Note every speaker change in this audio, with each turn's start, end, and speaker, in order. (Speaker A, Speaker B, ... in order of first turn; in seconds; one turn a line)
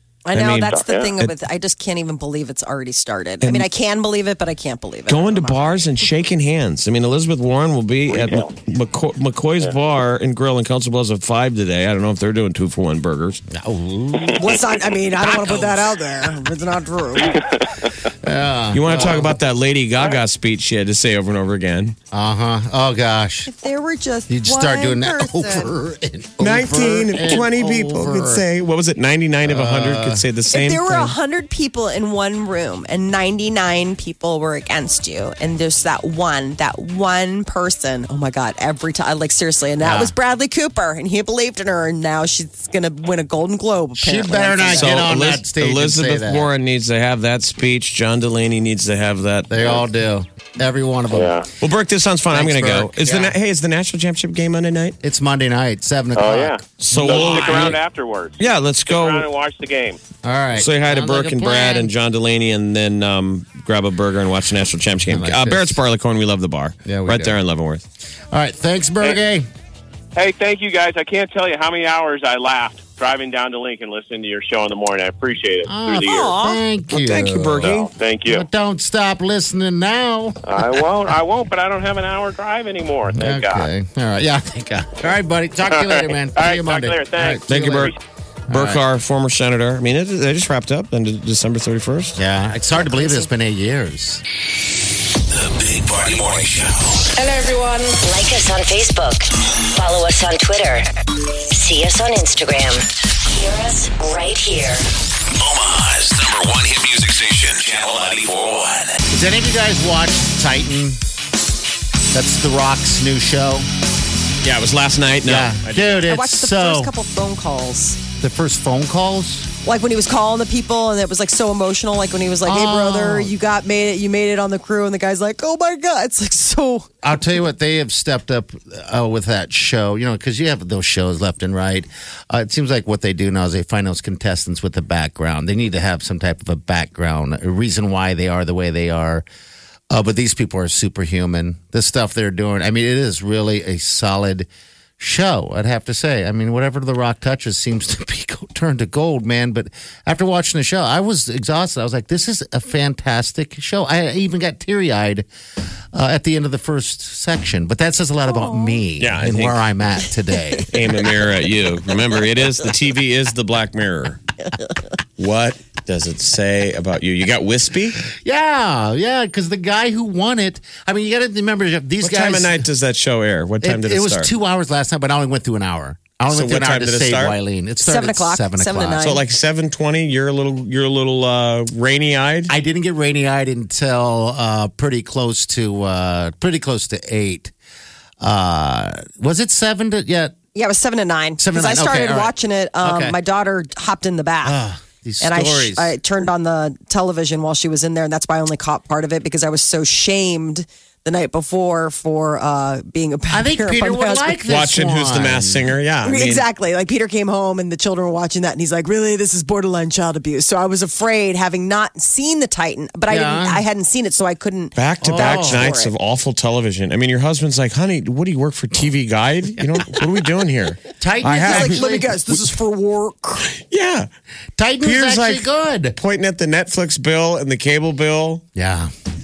Speaker A: 0.2-5.7
Speaker B: 0.3-1.3
Speaker C: 0.7-1.1
Speaker B: 3.4-3.7
Speaker B: 5.1-13.4
Speaker C: 8.1-8.5
Speaker D: 13.5-14.4
Speaker A: 14.3-17.4
Speaker D: 15.2-16.0
Speaker D: 18.2-19.3
Speaker B: 18.7-21.9
Speaker D: 22.1-23.5
Speaker A: 23.4-25.7
Speaker D: 24.3-28.4
Speaker B: 26.4-31.1
Speaker D: 29.4-30.2
Speaker A: 30.5-45.1
Speaker D: 39.8-40.1
Speaker D: 44.0-46.5
Speaker B: 44.7-49.5
Speaker D: 49.5-51.4
Speaker C: 51.1-51.5
Speaker B: 51.6-55.0
Speaker D: 52.3-53.4
Speaker D: 55.0-57.7
Speaker C: 56.1-60.0
Speaker B: 56.8-57.8
Speaker B: 58.4-59.3
Speaker D: 60.2-61.9
Speaker B: 60.5-67.8
Speaker D: 65.1-65.8
Speaker D: 66.8-67.4
Speaker D: 68.3-69.5
Speaker C: 70.1-76.4
Speaker D: 75.7-80.5
Speaker A: 76.0-76.6
Speaker B: 76.9-77.9
Speaker C: 77.6-78.5
Speaker C: 80.5-83.7
Speaker D: 83.1-87.9
Speaker C: 85.7-87.9
Speaker B: 87.5-87.9
Speaker D: 88.5-88.8
Speaker B: 88.5-92.2
Speaker D: 92.1-94.2
Speaker A: 92.7-93.3
Speaker E: 95.4-97.0
Speaker F: 98.0-100.9
Speaker F: 101.5-104.8
Speaker E: 105.4-108.9
Speaker D: 109.1-111.0
Speaker D: 112.1-113.7
Speaker B: 114.4-116.1
Speaker D: 115.2-116.9
Speaker A: 116.1-118.0
Speaker D: 118.2-119.5
Speaker A: 119.6-126.9
Speaker D: 122.4-123.3
Speaker D: 127.0-139.2
Speaker D: 139.9-144.5
Speaker D: 145.0-155.3
Speaker D: 155.9-160.7
Speaker A: 158.2-158.8
Speaker B: 159.0-159.7
Speaker B: 160.7-164.2
Speaker B: 165.2-168.0
Speaker D: 168.1-172.7
Speaker B: 172.0-174.3
Speaker D: 173.6-179.1
Speaker B: 176.3-177.4
Speaker A: 177.8-179.2
Speaker B: 179.0-182.5
Speaker D: 182.5-187.5
Speaker D: 188.2-190.3
Speaker A: 190.5-194.6
Speaker D: 191.4-193.2
Speaker D: 194.4-196.0
Speaker A: 195.2-204.4
Speaker D: 203.3-205.7
Speaker B: 204.5-206.4
Speaker A: 206.0-215.9
Speaker D: 213.1-213.6
Speaker B: 214.7-222.4
Speaker D: 215.0-215.7
Speaker D: 221.0-222.1
Speaker A: 221.3-223.5
Speaker B: 223.6-224.1
Speaker D: 224.6-225.9
Speaker B: 224.8-228.4
Speaker D: 228.5-228.9